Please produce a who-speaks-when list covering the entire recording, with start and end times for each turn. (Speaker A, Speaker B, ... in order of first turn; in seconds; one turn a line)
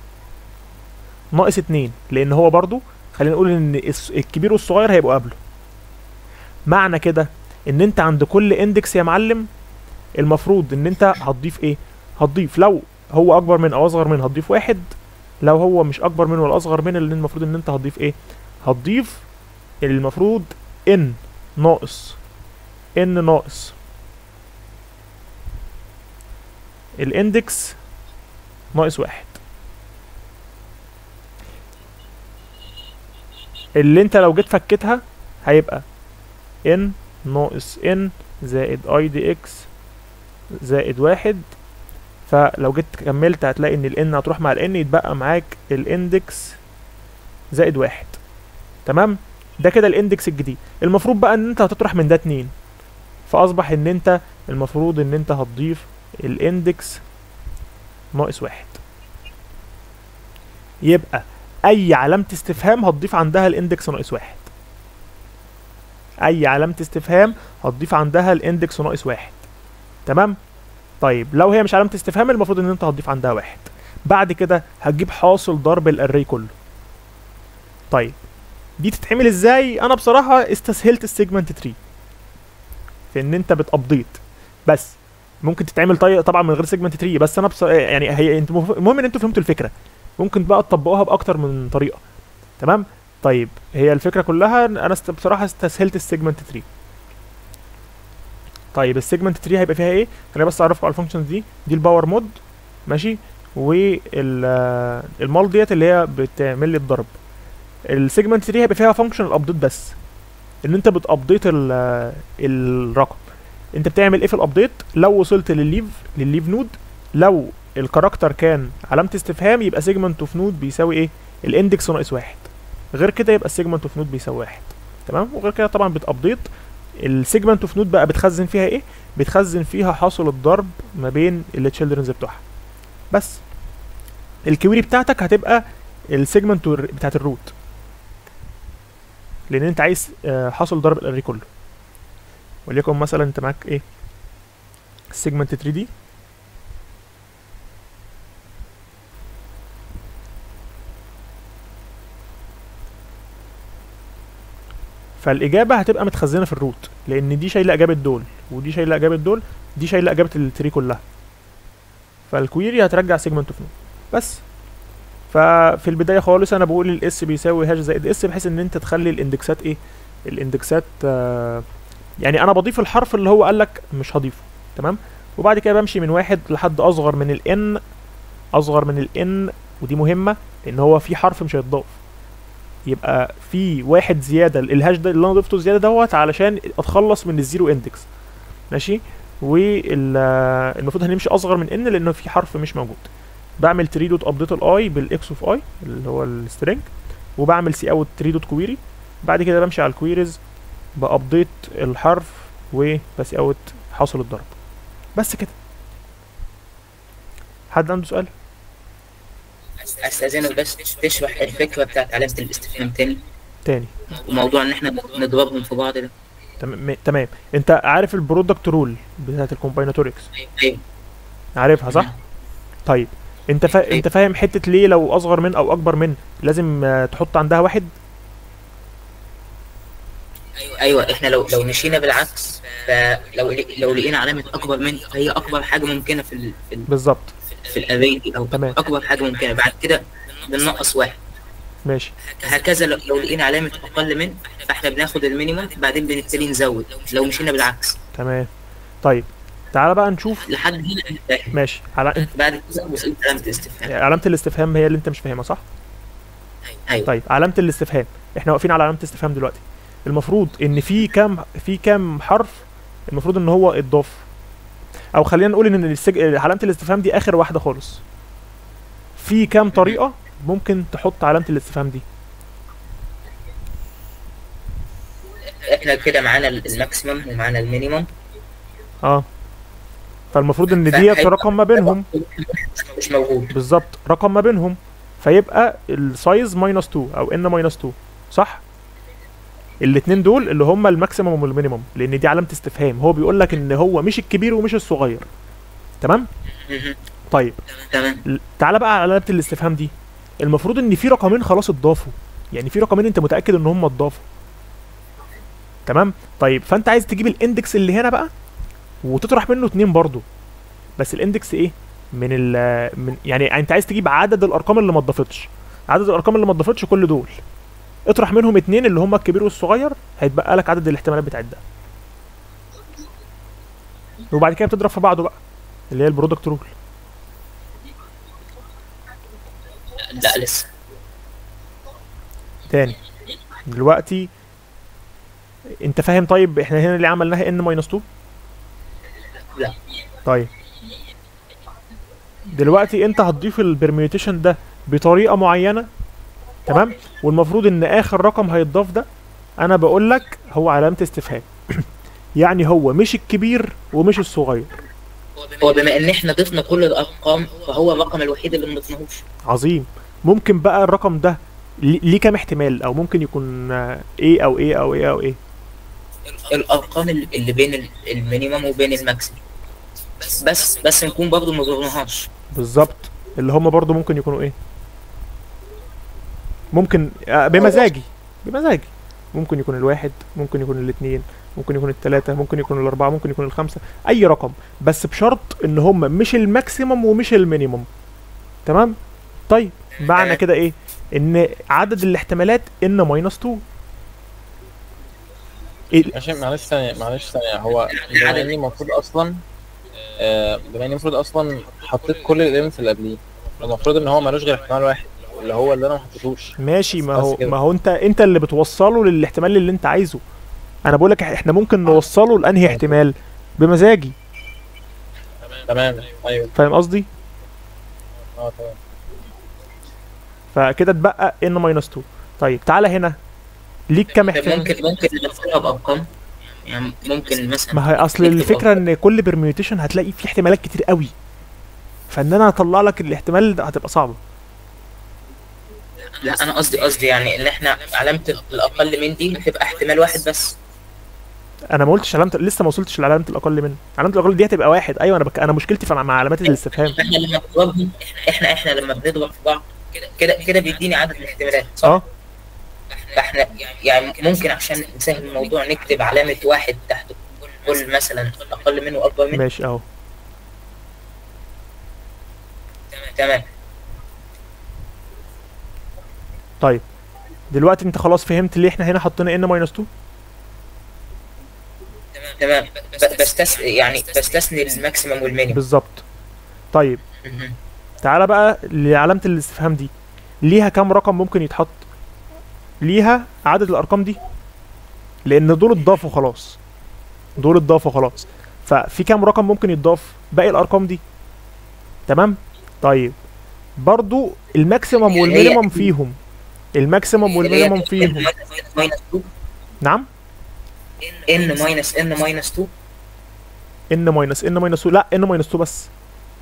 Speaker A: 1.3-5.4
Speaker A: 6.7-9.5
Speaker A: 10.2-14.9
Speaker A: 15.4-19.3
Speaker A: 19.8-22.2
Speaker A: 22.9-23.8
Speaker A: 27.0-27.8
Speaker A: 28.7-29.4
Speaker A: 33.8-35.8
Speaker A: 36.6-39.7
Speaker A: 40.6-41.4
Speaker A: 42.3-46.6
Speaker A: 47.5-48.2
Speaker A: 48.9-52.5
Speaker A: 53.3-57.0
Speaker A: 58.1-58.8
Speaker A: 60.9-64.5
Speaker A: 66.2-69.4
Speaker A: 70.0-70.4
Speaker A: 71.0-76.5
Speaker A: 78.8-81.8
Speaker A: 83.1-92.0
Speaker A: 92.6-96.6
Speaker A: 98.7-107.1
Speaker A: 107.9-110.0
Speaker A: 110.6-113.2
Speaker A: 113.8-126.5
Speaker A: 127.0-132.4
Speaker A: 133.1-133.4
Speaker A: 134.5-137.5
Speaker A: 139.5-141.4
Speaker A: 142.7-143.8
Speaker A: 145.1-145.9
Speaker A: 155.2-161.0
Speaker A: 162.3-164.4
Speaker A: 165.3-171.6
Speaker A: 172.2-177.8
Speaker A: 178.6-182.0
Speaker A: 182.9-188.1
Speaker A: 188.7-200.4
Speaker A: 200.9-204.5
Speaker A: 205.2-205.6
Speaker A: 207.7-208.3
Speaker B: 209.8-213.2
Speaker A: 213.7-213.9
Speaker B: 214.2-216.1
Speaker A: 216.6-220.3
Speaker B: 220.4-220.8
Speaker A: 221.6-222.1
Speaker A: 222.9-227.9
Speaker B: 230.7-236.9
Speaker A: 236.9-237.3
Speaker B: 237.7-241.2
Speaker A: 241.9-242.1
Speaker B: 242.4-247.9
Speaker A: 248.1-248.5
Speaker A: 249.0-250.4
Speaker B: 250.4-251.5
Speaker A: 251.5-252.3
Speaker B: 252.3-253.9
Speaker A: 253.8-255.6
Speaker A: 257.1-264.3
Speaker A: 265.1-268.0
Speaker A: 269.2-272.0
Speaker B: 275.6-278.1
Speaker A: 280.3-282.1
Speaker B: 280.7-283.5
Speaker A: 283.5-288.6
Speaker A: 289.8-295.3
Speaker A: 296.0-296.3
Speaker B: 296.7-296.9
Speaker A: 297.3-297.6
Speaker B: 297.9-298.2
Speaker A: 298.2-304.2
Speaker A: 305.9-308.3
Speaker A: 309.0-310.2
Speaker A: 311.0-317.4
Speaker A: 318.1-321.6
Speaker A: 324.3-325.4
Speaker A: 325.9-326.7
Speaker B: 330.1-330.7
Speaker A: 332.7-333.0
Speaker A: 333.7-334.3
Speaker A: 335.8-338.0
Speaker A: 342.5-345.9
Speaker A: 346.7-349.1
Speaker A: 349.6-351.8
Speaker A: 352.4-354.7
Speaker B: 355.6-359.2
Speaker A: 359.4-365.4
Speaker B: 366.5-369.4
Speaker B: 370.2-372.3
Speaker A: 372.5-374.6
Speaker A: 376.7-387.9
Speaker A: 388.7-388.9
Speaker A: 389.5-393.6
Speaker C: 396.1-399.4
Speaker C: 400.2-406.6
Speaker A: 406.6-410.2
Speaker A: 410.9-414.1
Speaker C: 415.4-416.5
Speaker A: 416.6-417.1
Speaker C: 418.2-418.8
Speaker A: 420.5-423.2
Speaker A: 423.9-424.7
Speaker B: 424.3-426.1
Speaker B: 426.6-428.7
Speaker A: 427.7-431.1
Speaker A: 432.1-434.2
Speaker B: 436.2-440.6
Speaker A: 441.7-447.0
Speaker B: 446.9-452.0
Speaker B: 453.1-459.4
Speaker A: 459.3-459.8
Speaker B: 463.0-463.4
Speaker A: 467.5-469.9
Speaker B: 472.4-475.6
Speaker A: 475.5-476.0
Speaker A: 476.7-477.0
Speaker B: 477.2-477.6
Speaker A: 478.0-479.9
Speaker A: 480.4-481.8
Speaker A: 482.8-484.2
Speaker A: 485.3-486.6
Speaker A: 487.4-491.0
Speaker A: 492.1-493.2
Speaker A: 493.8-496.2
Speaker B: 495.2-495.9
Speaker A: 496.7-498.3
Speaker B: 497.4-499.3
Speaker B: 501.3-502.7
Speaker A: 503.9-505.9